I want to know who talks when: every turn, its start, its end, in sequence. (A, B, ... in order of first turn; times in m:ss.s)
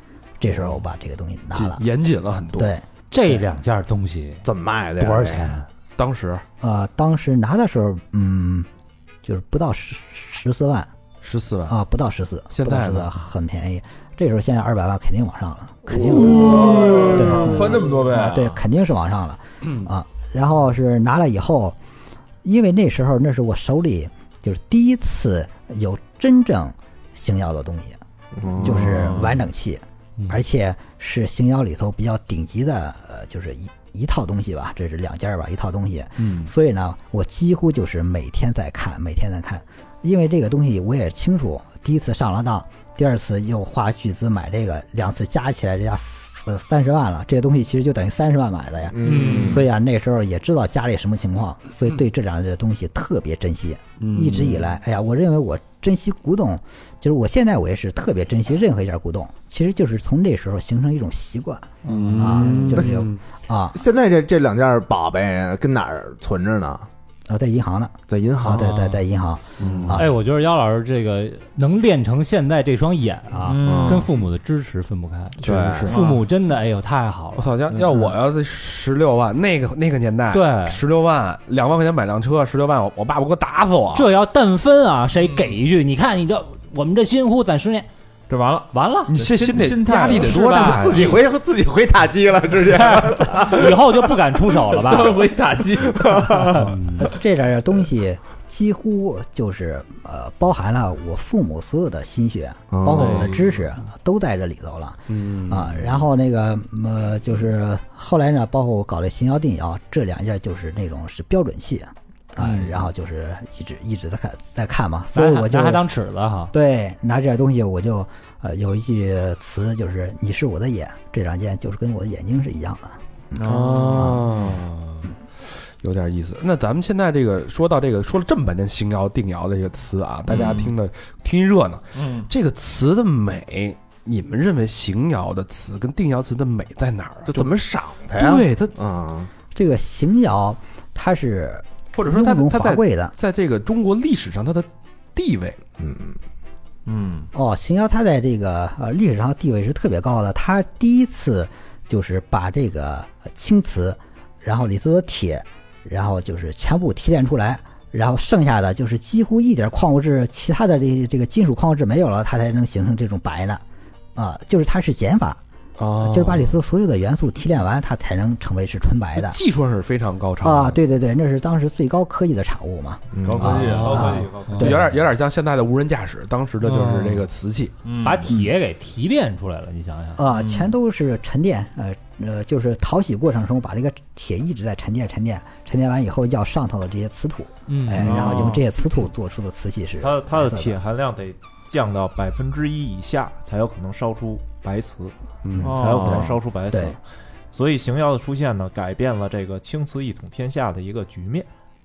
0:00.4-0:01.8 A
0:01.5-0:02.7 B
0:02.6-0:02.8 A
0:03.1-0:04.4 C
0:04.4-0:05.5 D
0:05.0-0:05.7 C
0:06.0-0:06.4 B
0:06.6-0:08.7 A
0:09.2-0:10.9 A
0:11.2-0:11.8 B
0:11.7-0:21.8 A
0:12.5-0:13.1 B
0:16.3-0:17.2 D
0:16.3-0:18.6 E
0:22.4-0:28.0 A
0:28.4-0:29.3 D
0:28.6-1:03.8 A
0:28.7-0:29.3 E
0:36.2-0:36.5 D
0:48.9-0:49.6 D
0:49.1-0:49.5 C
0:49.1-0:49.6 E
0:54.0-0:54.6 B
1:01.8-1:03.2 B
1:01.9-1:02.2 C
1:03.7-1:06.9 D
1:07.3-1:10.1 A
1:08.1-1:08.7 D
1:08.4-1:09.0 C
1:09.6-1:10.0 B
1:09.6-1:10.0 D
1:10.0-1:17.5 C
1:13.5-1:14.1 E
1:13.6-1:14.1 D
1:15.4-1:15.9 D
1:15.4-1:16.1 B
1:17.4-1:24.1 B
1:20.3-1:20.8 C
1:23.9-1:27.9 C
1:25.2-1:25.5 E
1:28.3-1:31.1 E
1:28.7-1:29.2 C
1:29.1-1:31.2 B
1:30.1-1:31.1 C
1:30.6-1:34.1 D
1:32.8-1:35.3 C
1:34.8-1:36.7 E
1:35.8-1:36.8 D
1:36.9-1:55.8 A
1:42.7-1:43.3 D
1:43.0-1:43.3 E
1:45.2-1:45.7 B
1:55.1-1:56.5 C
1:56.5-2:03.4 A
2:03.4-2:04.2 E
2:03.4-2:05.1 B
2:03.9-2:04.2 A
2:05.8-2:17.5 B
2:10.3-2:10.7 E
2:12.0-2:12.3 E
2:17.3-2:19.3 D
2:18.1-2:18.8 B
2:19.5-2:23.2 A
2:21.9-2:25.6 B
2:25.8-2:26.2 D
2:26.9-2:27.3 E
2:27.3-2:43.6 A
2:44.2-2:45.4 A
2:45.8-2:46.5 B
2:46.0-2:49.4 A
2:49.2-2:50.8 B
2:50.4-2:55.0 A
2:53.2-2:53.6 D
2:53.2-2:54.3 E
2:53.6-2:54.7 F
2:54.6-2:57.8 B
2:57.8-2:58.4 E
2:58.0-3:00.2 C
3:00.2-3:10.8 A
3:07.7-3:08.6 C
3:08.0-3:08.6 E
3:10.0-3:17.0 F
3:15.4-3:15.8 B
3:15.6-3:16.3 E
3:16.7-3:17.0 A
3:17.5-3:21.5 F